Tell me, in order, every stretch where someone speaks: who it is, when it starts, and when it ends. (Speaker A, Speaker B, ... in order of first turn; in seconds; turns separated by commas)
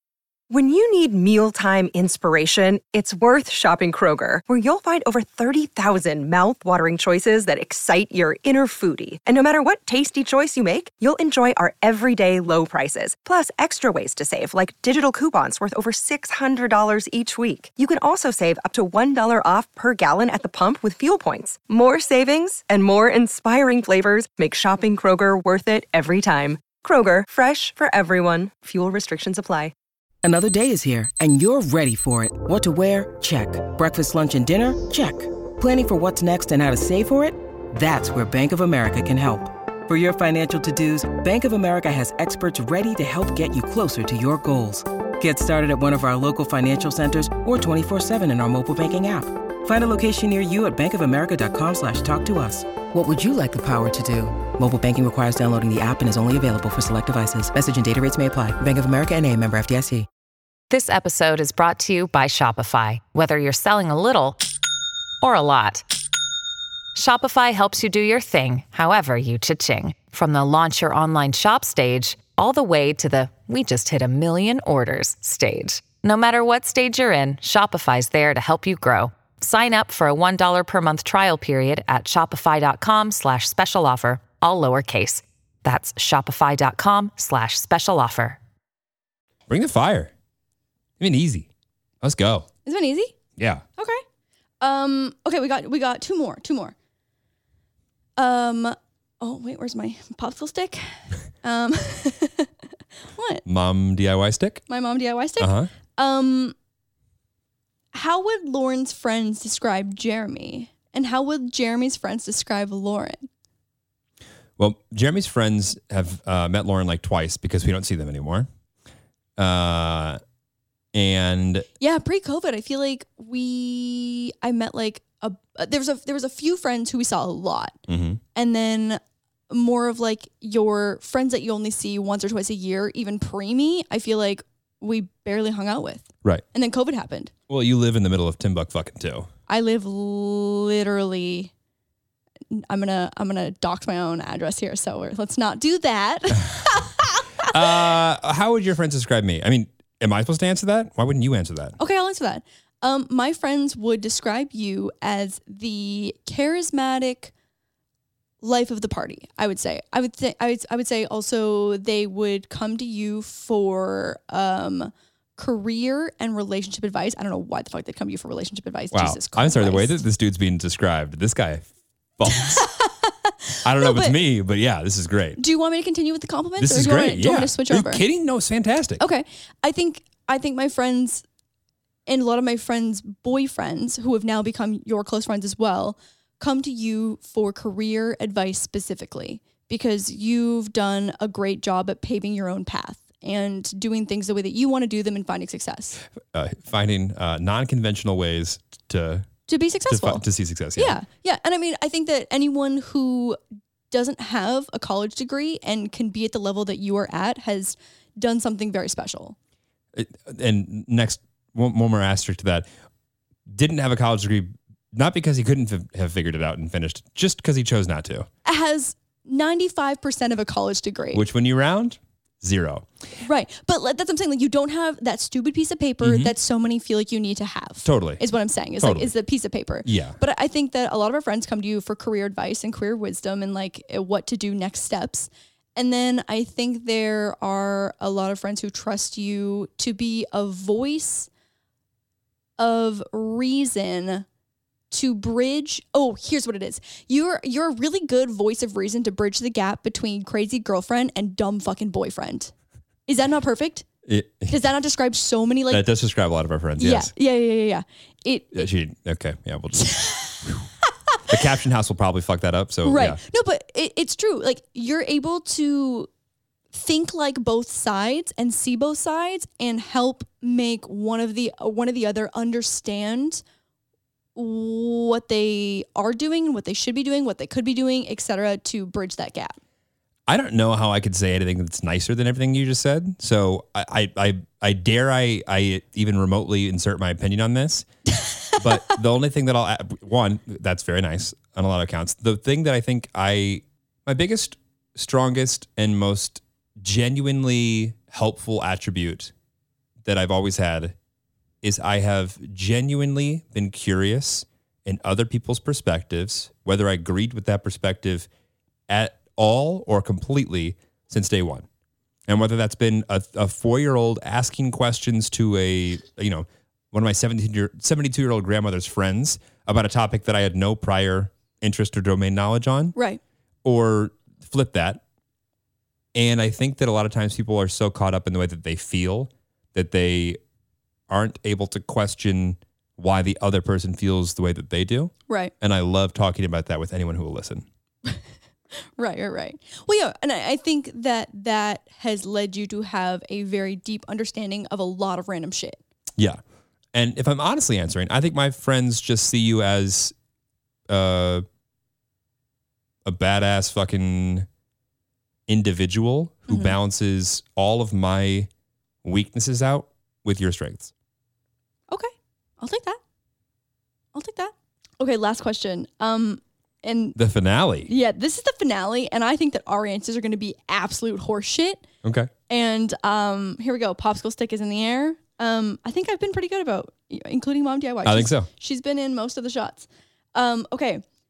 Speaker A: 0.5-29.7, Speaker B: 30.2-60.1, Speaker C: 60.7-64.4, Speaker C: 65.2-65.9, Speaker C: 67.0-88.4, Speaker D: 89.5-90.1, Speaker D: 91.0-91.5, Speaker D: 92.0-92.5, Speaker E: 92.7-93.2, Speaker D: 93.4-93.6, Speaker E: 94.6-96.7, Speaker E: 98.2-102.5, Speaker E: 103.1-103.4, Speaker D: 103.5-104.6, Speaker E: 104.7-106.5, Speaker D: 105.4-105.7, Speaker E: 107.9-113.3, Speaker D: 114.6-118.5, Speaker D: 119.4-120.2, Speaker D: 120.9-121.7, Speaker E: 121.8-127.8, Speaker D: 127.9-128.2, Speaker E: 128.3-137.3, Speaker D: 137.5-139.3, Speaker E: 139.5-141.5, Speaker E: 142.5-147.6, Speaker D: 147.4-151.8, Speaker E: 151.8-157.3, Speaker E: 158.4-170.0, Speaker D: 168.9-171.7, Speaker D: 172.2-172.7, Speaker E: 172.3-174.2, Speaker D: 173.6-175.4, Speaker E: 175.4-178.0, Speaker D: 176.6-179.0, Speaker E: 179.0-181.2, Speaker E: 182.1-196.0, Speaker D: 196.3-199.3, Speaker E: 199.5-200.2, Speaker D: 199.9-201.0, Speaker E: 200.8-203.4, Speaker E: 203.9-209.4, Speaker D: 209.9-212.7, Speaker D: 213.5-218.3, Speaker E: 218.4-221.2, Speaker D: 221.1-222.9, Speaker E: 223.2-241.3, Speaker D: 226.0-226.3, Speaker D: 227.8-228.2, Speaker D: 228.8-229.1, Speaker D: 229.8-230.2, Speaker E: 242.6-244.3, Speaker E: 244.9-252.5, Speaker E: 253.1-253.9, Speaker D: 254.1-254.6, Speaker E: 254.5-255.9, Speaker D: 255.7-257.1, Speaker E: 256.8-258.7, Speaker D: 258.5-260.6, Speaker E: 259.9-260.5, Speaker D: 261.3-263.2, Speaker E: 262.9-266.1, Speaker E: 266.7-273.4, Speaker E: 274.4-279.6, Speaker D: 280.3-287.9, Speaker D: 288.5-299.3, Speaker D: 300.1-300.9, Speaker D: 301.6-308.3, Speaker D: 308.9-311.6, Speaker D: 312.3-322.9, Speaker E: 322.9-323.2, Speaker D: 323.6-325.0, Speaker D: 326.1-330.4, Speaker D: 331.1-337.6, Speaker E: 339.0-345.8, Speaker D: 346.9-350.1, Speaker D: 350.9-351.4, Speaker D: 353.1-354.5, Speaker D: 355.5-358.5, Speaker E: 356.5-356.8, Speaker D: 359.0-360.9, Speaker E: 361.9-363.0, Speaker E: 364.1-367.2, Speaker D: 367.2-367.9, Speaker E: 367.9-371.9, Speaker D: 372.0-372.3, Speaker E: 372.5-381.0, Speaker D: 378.1-378.5